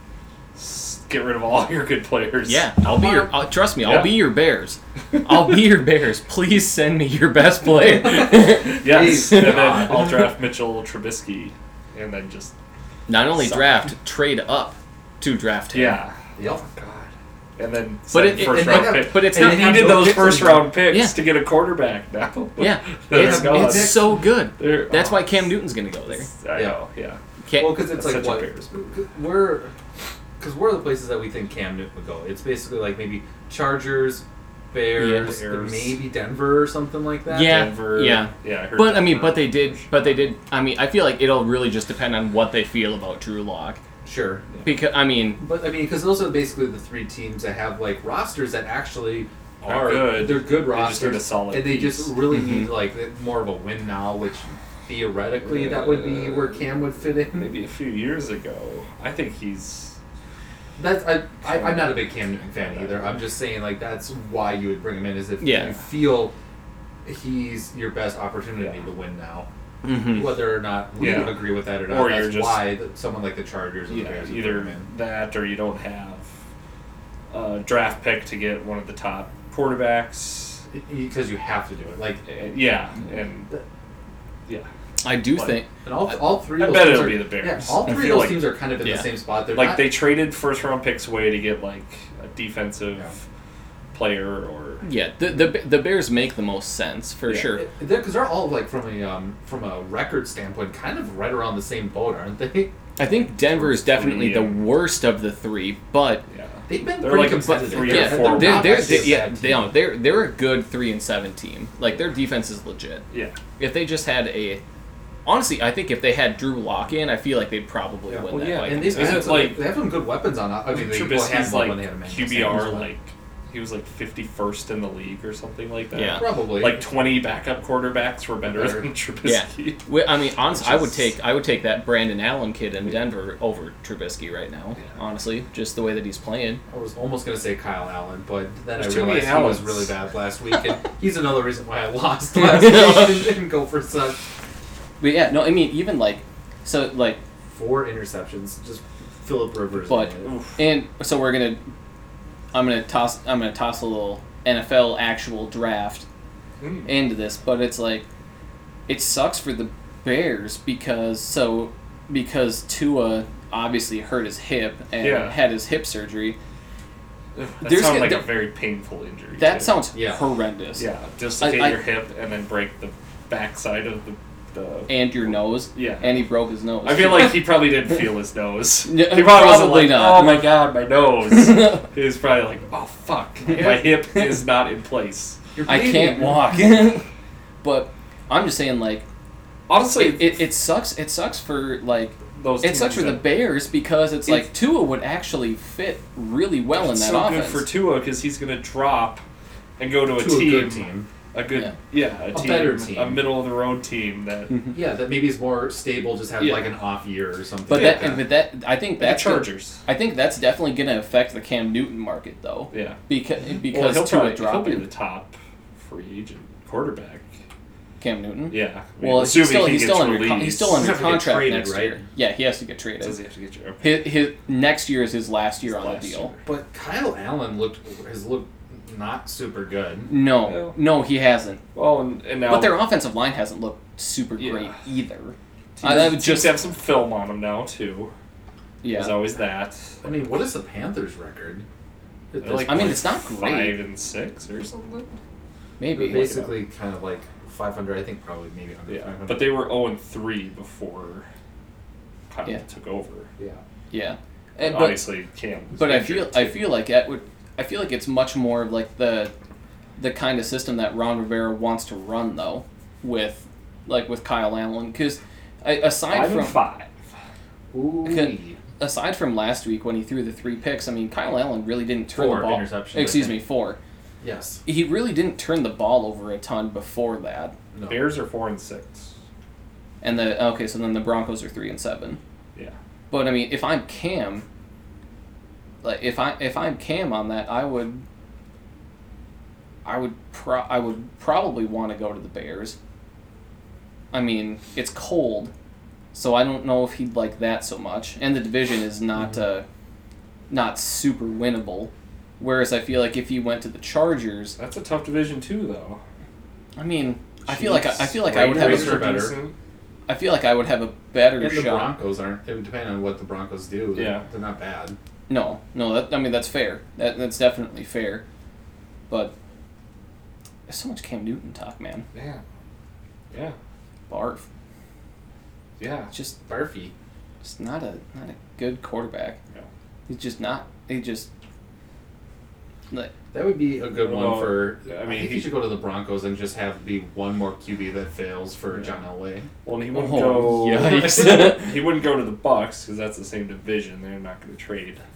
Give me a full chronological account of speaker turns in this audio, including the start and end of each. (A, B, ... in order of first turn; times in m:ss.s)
0:00.5-0:02.7 A
0:02.4-0:09.8 B
0:02.8-0:03.3 C
0:03.8-0:04.3 A
0:08.4-0:10.3 C
0:08.6-0:12.5 A
0:13.1-0:16.0 B
0:13.3-0:13.7 A
0:15.7-0:25.5 A
0:16.4-0:16.6 C
0:18.1-0:21.1 B
0:18.2-0:20.8 C
0:22.6-0:26.3 B
0:23.1-0:24.2 C
0:26.1-0:27.2 A
0:27.4-0:27.8 B
0:27.5-0:29.7 C
0:27.7-0:28.7 A
0:30.4-0:37.6 C
0:35.0-0:35.3 B
0:35.1-0:36.0 A
0:37.3-0:43.8 B
0:37.4-0:39.9 A
0:44.0-0:44.4 C
0:44.6-0:45.4 B
0:45.4-0:57.5 C
0:49.6-0:52.1 A
0:52.3-0:52.7 B
0:55.4-0:56.6 A
0:57.3-1:00.0 A
1:00.8-1:06.3 C
1:01.4-1:02.0 A
1:02.6-1:03.2 A
1:05.4-1:05.8 B
1:07.0-1:09.5 C
1:09.8-1:10.4 B
1:10.0-1:14.8 C
1:11.0-1:12.7 A
1:13.9-1:16.3 A
1:17.3-1:20.6 A
1:20.7-1:22.2 C
1:22.2-1:23.5 A
1:25.0-1:25.7 B
1:25.2-1:25.6 A
1:25.8-1:29.9 C
1:26.6-1:28.6 A
1:29.5-1:33.1 A
1:33.9-1:34.8 A
1:34.8-1:37.6 B
1:37.4-1:42.7 C
1:43.0-1:46.2 B
1:43.0-1:44.7 A
1:46.3-1:49.1 A
1:46.7-1:49.7 C
1:47.3-1:53.0 B
1:53.1-1:53.4 A
1:53.6-1:54.6 B
1:55.2-1:59.5 B
1:58.1-2:02.9 C
1:58.3-1:59.7 A
2:00.7-2:09.8 A
2:05.9-2:06.2 B
2:06.2-2:06.8 C
2:08.5-2:08.9 C
2:09.2-2:16.6 B
2:10.6-2:10.9 C
2:16.7-2:24.2 C
2:18.7-2:19.9 A
2:22.3-2:23.3 B
2:25.0-2:27.2 B
2:27.5-2:30.3 C
2:29.9-2:31.6 B
2:30.2-2:30.6 A
2:32.5-2:36.0 B
2:36.6-2:36.9 A
2:36.8-2:38.0 B
2:38.9-2:46.4 B
2:45.0-2:45.4 A
2:47.4-2:49.8 A
2:47.6-2:48.3 B
2:49.3-2:50.8 B
2:49.9-2:50.2 C
2:50.8-2:55.0 A
2:51.4-2:51.8 B
2:54.9-2:57.5 B
2:55.7-2:56.2 A
2:56.8-3:05.4 A
2:58.8-3:00.5 B
3:01.3-3:01.8 B
3:03.5-3:03.8 C
3:03.5-3:04.4 B
3:05.5-3:06.8 C
3:05.6-3:07.0 B
3:07.6-3:09.0 B
3:09.7-3:10.4 A
3:09.9-3:17.7 B
3:12.3-3:13.3 A
3:16.7-3:19.2 A
3:19.8-3:24.6 A
3:20.1-3:21.1 C
3:22.3-3:23.3 C
3:24.7-3:28.2 C
3:26.4-3:26.8 A
3:27.7-3:28.3 A
3:27.7-3:34.8 B
3:29.0-3:29.8 A
3:32.7-3:33.0 A
3:33.7-3:37.2 A
3:38.0-3:43.2 B
3:38.5-3:41.0 A
3:40.7-3:42.0 C
3:43.0-3:43.8 A
3:43.8-3:46.3 B
3:45.7-3:46.4 A
3:46.4-3:50.1 C
3:50.1-3:51.6 B
3:50.4-3:50.7 A
3:51.7-3:52.8 A
3:52.5-3:56.6 B
3:54.4-3:54.8 A
3:55.8-3:58.1 A
3:58.8-3:59.2 B
3:58.9-3:59.8 A
4:00.0-4:01.6 C
4:02.3-4:03.0 C
4:02.4-4:05.2 A
4:02.6-4:03.8 B
4:05.8-4:06.5 B
4:06.0-4:09.6 C
4:06.1-4:06.5 A
4:08.9-4:11.3 A
4:12.3-4:13.3 A
4:13.9-4:15.0 B
4:14.6-4:16.6 A
4:15.7-4:19.3 B
4:20.0-4:26.6 B
4:26.1-4:26.9 A
4:27.7-4:28.6 C
4:28.0-4:33.8 B
4:32.1-4:33.4 C
4:34.2-4:34.6 C
4:34.6-4:37.5 B
4:37.7-4:38.1 C
4:37.9-4:39.1 A
4:40.0-4:42.2 B
4:43.1-4:44.4 B
4:45.8-4:48.0 B
4:49.8-4:52.8 B
4:54.1-4:55.5 B
4:56.1-4:59.6 B
5:00.5-5:04.6 B
5:04.6-5:06.0 A
5:06.8-5:09.2 B
5:07.5-5:09.4 C
5:07.7-5:09.5 A
5:10.1-5:11.9 B
5:11.4-5:15.0 C
5:13.9-5:14.2 A
5:15.3-5:18.2 B
5:19.1-5:19.3 B
5:20.7-5:22.0 B
5:22.1-5:22.4 A
5:23.3-5:23.6 A
5:24.1-5:24.4 B
5:25.8-5:26.1 A
5:26.1-5:26.4 B
5:26.4-5:26.9 C
5:27.4-5:29.4 B
5:30.1-5:31.3 B
5:33.3-5:39.5 C
5:34.0-5:35.6 A
5:39.6-5:45.0 A
5:39.9-5:41.7 B